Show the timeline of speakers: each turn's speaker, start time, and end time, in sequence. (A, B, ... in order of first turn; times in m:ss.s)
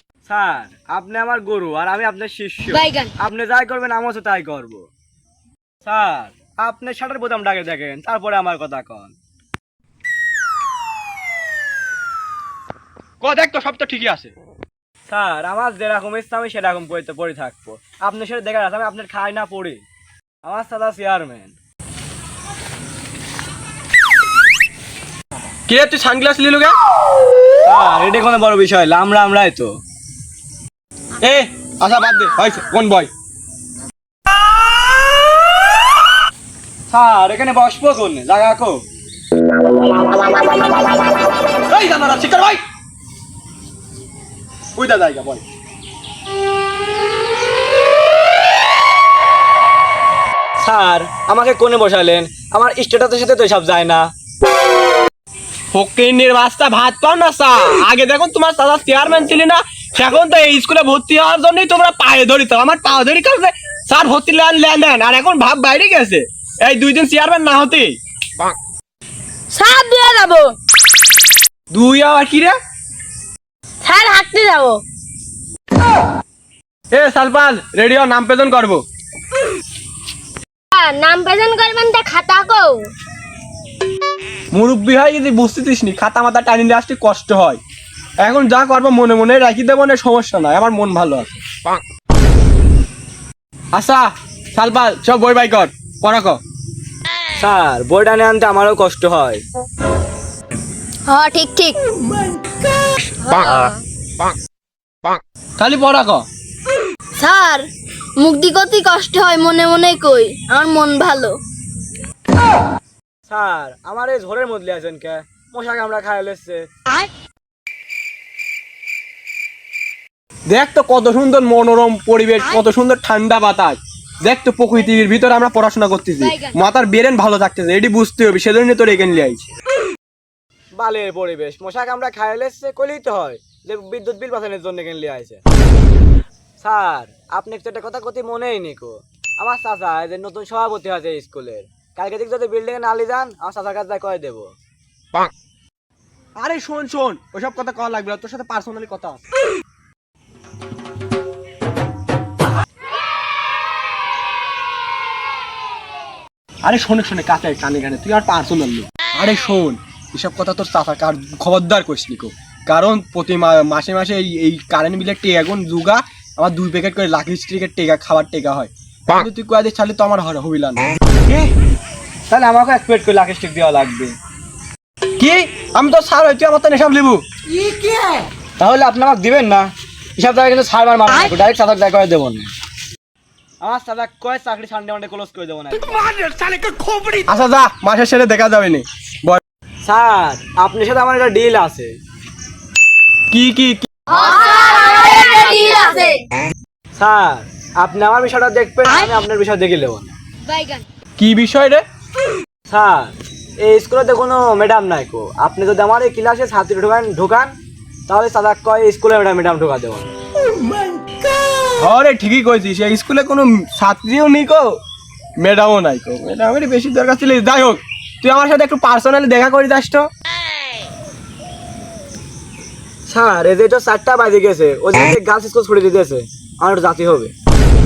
0:00.2-0:04.9 A
0:05.8-0:09.2 A
0:13.2-0:14.3 B
0:15.1-0:19.8 A
0:20.4-0:21.5 A
0:25.7-0:26.8 B
0:27.6-0:29.8 A
0:31.2-0:33.1 B
0:36.9-0:38.8 A
0:41.7-0:42.6 B
0:44.8-0:45.4 B
0:50.6-0:54.1 A
0:55.7-1:08.0 B
1:09.5-1:10.5 C
1:11.7-1:12.6 B
1:13.8-1:14.8 C
1:16.9-1:18.8 B
1:20.7-1:22.9 D
1:24.5-1:27.6 B
1:28.2-1:31.4 B
1:33.7-1:36.4 B
1:37.4-1:39.4 A
1:41.1-1:41.8 E
1:43.2-1:43.7 E
1:45.6-1:46.3 B
1:47.2-1:47.7 E
1:48.2-1:51.4 E
1:53.3-1:56.7 A
2:00.5-2:09.4 B
2:10.8-2:15.4 A
2:16.6-2:24.5 A
2:26.4-2:29.2 B
2:36.6-2:50.9 B
2:51.3-2:51.5 A
2:52.3-2:54.2 A
2:55.2-2:57.2 B
2:58.6-3:02.5 A
3:03.6-3:06.3 A
3:07.1-3:09.4 B
3:09.8-3:12.0 A
3:13.3-3:13.9 B
3:14.1-3:16.2 E
3:17.0-3:20.2 A
3:21.2-3:21.8 B
3:22.7-3:27.6 A
3:28.1-3:30.1 A
3:31.8-3:34.8 B
3:35.4-3:40.1 B
3:43.1-3:47.3 A